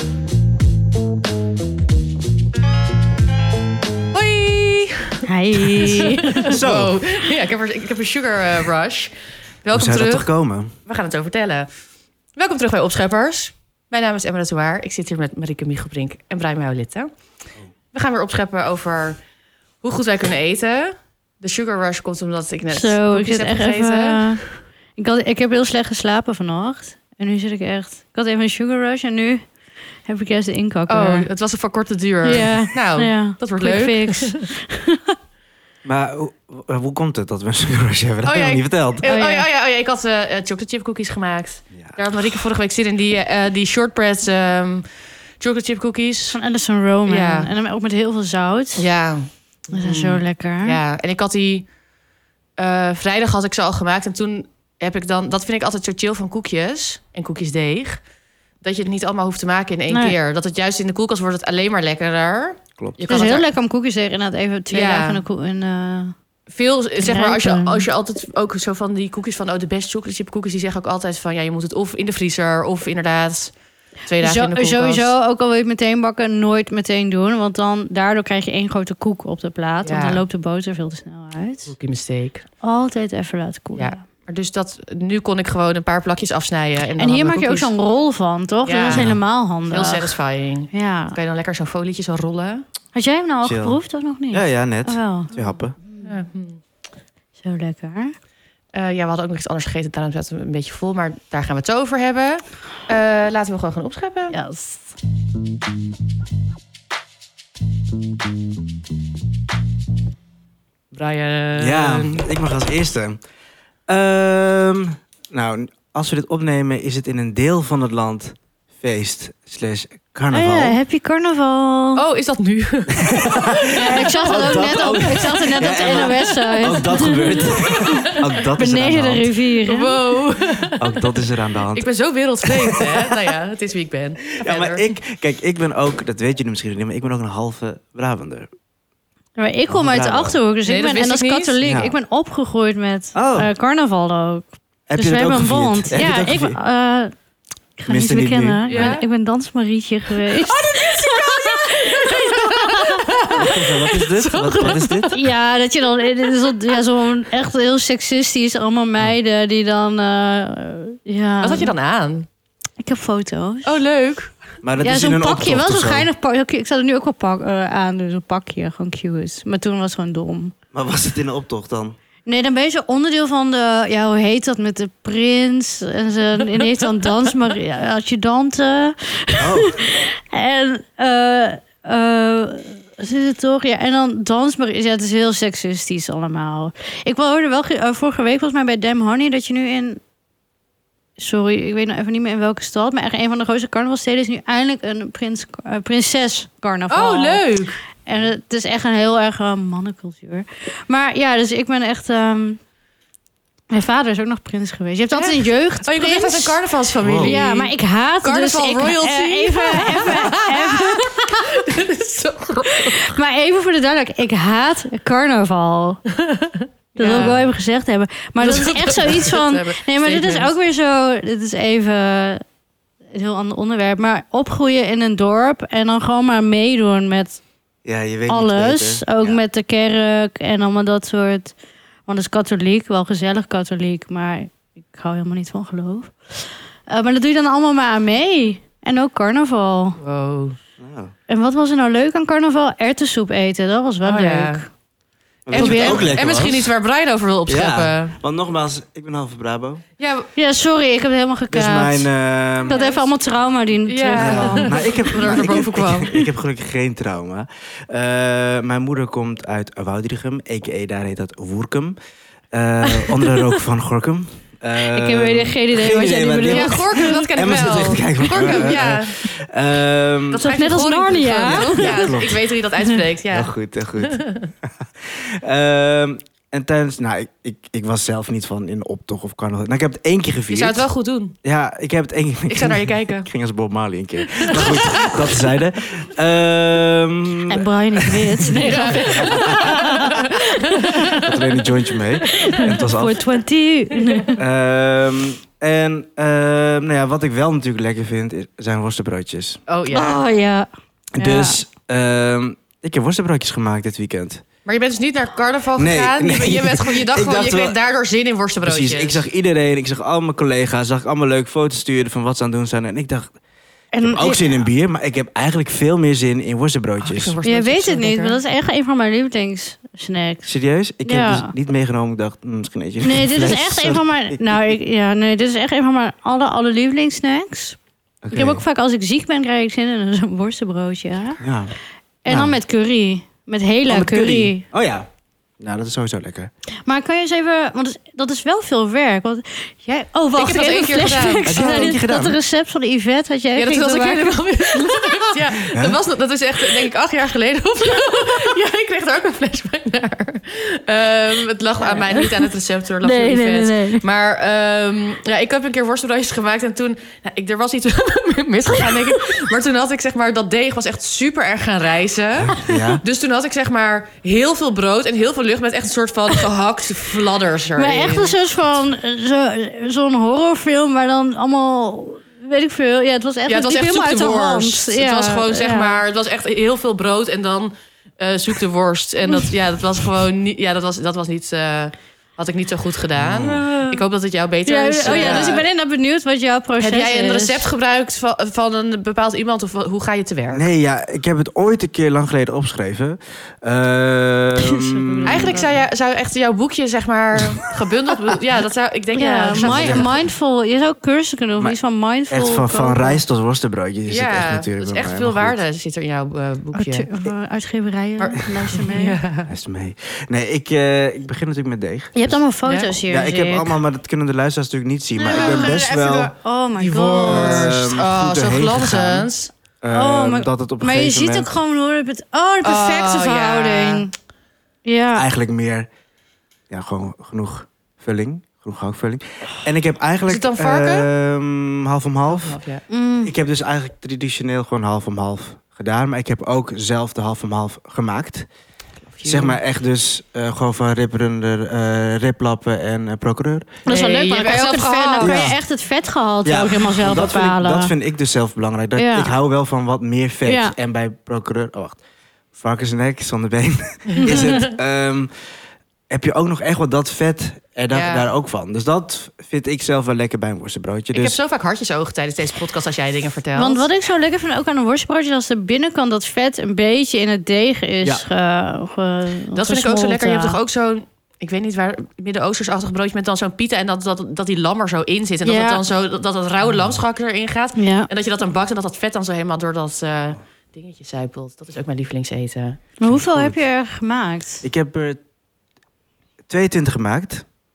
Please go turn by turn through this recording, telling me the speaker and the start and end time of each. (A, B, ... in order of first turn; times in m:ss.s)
0:04.1-0:10.3 A
0:05.2-0:06.5 B
0:06.5-0:07.0 C
0:09.7-0:10.7 C
0:10.8-0:11.7 A
0:12.4-0:17.1 A
0:17.9-0:19.2 A
0:19.8-0:24.4 A
0:22.7-0:29.4 B
0:30.1-0:31.3 B
0:30.9-0:34.4 A
0:32.2-0:35.1 B
0:35.8-0:39.1 C
0:38.2-0:44.9 A
0:39.0-0:39.5 B
0:45.4-0:46.4 A
0:46.3-0:48.8 B
0:47.0-0:47.5 A
0:48.8-0:51.7 A
0:49.7-0:50.8 B
0:52.6-0:58.0 A
0:58.6-1:03.5 A
0:59.9-1:00.2 B
1:02.8-1:03.0 C
1:03.1-1:06.1 B
1:04.7-1:05.2 A
1:06.5-1:15.1 A
1:07.0-1:07.9 B
1:14.2-1:21.7 B
1:19.8-1:20.2 A
1:21.6-1:22.4 A
1:22.6-1:24.0 B
1:23.7-1:27.7 A
1:27.0-1:30.2 B
1:28.6-1:29.1 A
1:28.9-1:29.2 C
1:29.7-1:32.6 A
1:30.7-1:31.2 B
1:32.9-1:35.3 B
1:33.4-1:33.8 C
1:34.3-1:35.8 C
1:36.0-1:36.6 A
1:37.4-1:38.1 B
1:38.7-1:44.4 A
1:44.3-1:44.9 B
1:50.9-1:52.3 A
1:51.6-1:53.2 C
1:53.9-2:00.8 C
2:00.3-2:02.0 B
2:02.0-2:05.2 A
2:02.9-2:09.3 C
2:03.7-2:10.0 B
2:05.8-2:08.2 A
2:09.6-2:11.1 A
2:10.8-2:11.8 C
2:11.7-2:14.9 A
2:12.4-2:13.1 C
2:14.4-2:18.5 C
2:19.4-2:27.1 B
2:19.7-2:20.4 C
2:20.6-2:21.5 A
2:21.6-2:22.0 C
2:23.1-2:23.5 C
2:24.9-2:26.6 C
2:27.8-2:33.3 B
2:27.9-2:28.9 C
2:28.7-2:29.0 A
2:30.2-2:35.1 A
2:33.4-2:35.2 C
2:35.1-2:41.7 B
2:41.4-2:42.3 A
2:42.8-2:43.8 B
2:43.6-2:44.4 A
2:44.6-2:46.1 C
2:44.8-2:50.5 B
2:50.7-2:52.0 C
2:52.2-3:10.0 B
2:59.4-2:59.8 C
3:11.2-3:22.6 B
3:16.9-3:17.8 A
3:23.7-3:26.6 B
3:25.1-3:33.1 A
3:27.0-3:27.4 C
3:27.2-3:31.6 B
3:32.7-3:36.0 B
3:36.2-3:37.4 A
3:37.0-3:42.4 B
3:37.1-3:37.4 C
3:38.4-3:40.5 A
3:43.1-3:47.4 B
3:47.8-3:49.4 C
3:48.3-3:51.5 B
3:52.1-4:00.0 B
4:00.0-4:00.6 A
4:00.8-4:01.1 C
4:01.3-4:04.7 B
4:04.0-4:04.6 A
4:05.4-4:06.7 C
4:05.5-4:06.2 B
4:05.5-4:08.2 A
4:07.5-4:09.8 C
4:10.0-4:10.3 A
4:10.4-4:12.1 B
4:11.5-4:12.8 C
4:12.6-4:16.3 B
4:12.7-4:13.1 A
4:13.9-4:16.1 A
4:14.1-4:22.0 C
4:22.5-4:30.5 C
4:22.9-4:23.6 B
4:24.9-4:27.6 B
4:26.5-4:29.3 A
4:28.3-4:28.8 B
4:30.3-4:34.5 A
4:30.4-4:33.0 B
4:31.4-4:32.4 C
4:33.3-4:40.8 C
4:40.5-4:41.3 A
4:41.4-4:49.9 C
4:42.5-4:43.3 A
4:44.4-4:45.3 A
4:47.5-4:51.3 B
4:48.6-4:51.2 A
4:51.0-4:53.2 C
4:52.3-4:54.4 B
4:53.9-4:54.3 A
4:54.4-4:59.6 C
4:59.7-5:00.2 A
4:59.9-5:01.6 B
5:01.1-5:04.4 C
5:04.6-5:09.2 A
5:05.8-5:07.8 C
5:08.6-5:13.4 C
5:13.9-5:14.6 B
5:14.0-5:17.3 C
5:17.0-5:18.4 A
5:17.4-5:20.5 B
5:20.4-5:24.7 C
5:21.0-5:21.5 B
5:23.0-5:27.8 B
5:28.2-5:28.6 C
5:28.3-5:31.4 B
5:31.4-5:31.7 C
5:32.2-5:34.6 B
5:32.3-5:32.6 C
5:33.9-5:35.1 C
5:35.6-5:36.5 C
5:36.8-5:45.4 B
5:40.4-5:42.0 A
5:41.4-5:42.4 C
5:43.5-6:08.4 A
5:45.7-5:46.0 C
5:51.9-5:52.5 B
5:53.0-5:54.0 B
6:02.4-6:03.0 C
6:07.8-6:16.0 B
6:13.5-6:25.6 A
6:23.2-6:23.7 C
6:23.4-6:24.0 B
6:24.6-6:27.7 B
6:25.0-6:25.6 C
6:26.8-6:30.7 A
6:30.5-6:35.7 C
6:34.6-6:35.8 B
6:35.2-6:40.2 A
6:39.1-6:43.2 B
6:39.5-6:40.2 C
6:42.3-6:45.6 C
6:44.1-6:47.1 A
6:46.7-6:49.2 B
6:48.2-6:49.5 A
6:49.5-6:52.4 C
6:52.1-6:53.8 B
6:52.6-6:52.9 A
6:53.0-6:56.3 C
6:55.2-6:59.5 A
6:55.3-6:57.7 B
6:57.2-6:59.3 C
6:59.8-7:01.5 C
6:59.9-7:04.1 B
7:02.6-7:04.1 A
7:04.8-7:05.2 B
7:05.1-7:05.9 C
7:06.7-7:12.6 C
7:10.2-7:11.1 A
7:12.3-7:12.8 A
7:12.9-7:13.3 B
7:13.2-7:18.5 C
7:19.1-7:19.6 A
7:19.2-7:23.7 C
7:23.9-7:25.4 A
7:23.9-7:27.9 B
7:25.2-7:25.6 C
7:26.4-7:32.0 C
7:29.0-7:29.3 B
7:30.5-7:30.8 B
7:32.5-7:35.3 C
7:34.1-7:34.7 A
7:36.1-7:41.4 C
7:37.9-7:38.3 A
7:41.1-7:43.9 A
7:43.5-7:50.6 B
7:49.5-8:02.8 A
7:55.4-7:55.8 B
7:57.8-7:58.1 B
8:03.0-8:04.6 B
8:03.0-8:03.6 C
8:04.6-8:05.2 C
8:06.5-8:07.4 C